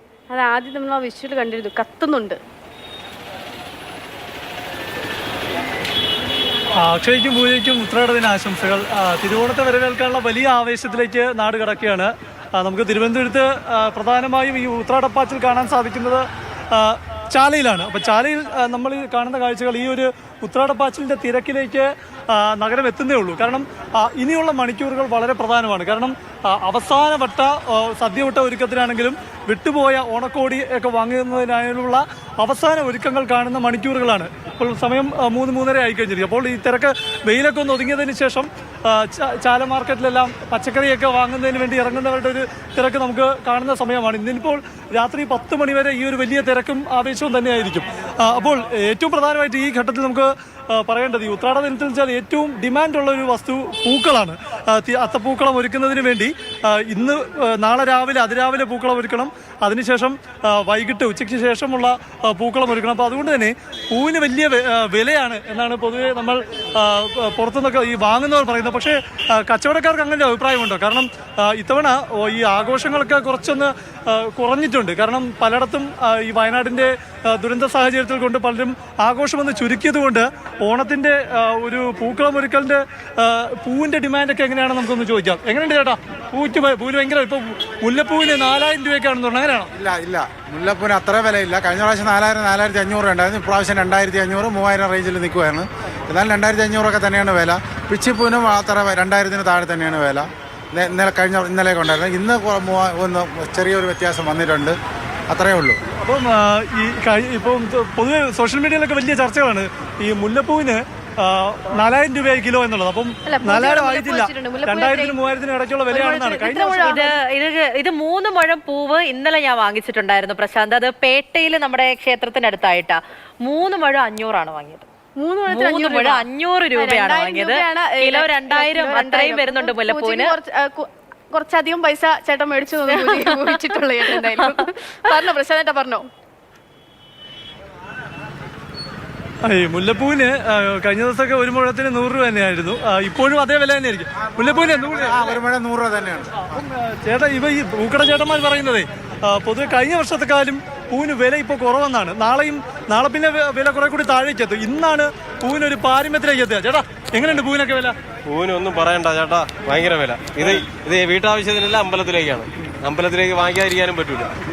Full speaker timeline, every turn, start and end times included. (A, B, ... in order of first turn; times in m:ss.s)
0:00.3-0:02.4 A
0:06.8-1:29.7 B
1:29.7-1:44.8 C
1:45.3-1:45.8 C
1:46.0-1:57.1 B
1:53.3-1:55.2 A
1:55.9-1:57.1 A
1:56.8-2:04.9 D
2:05.2-2:06.2 A
2:05.5-2:10.4 D
2:06.8-2:16.1 A
2:12.9-2:15.3 D
2:19.4-2:25.4 B
2:24.2-2:26.6 C
2:26.4-2:38.0 B
2:38.3-2:44.3 E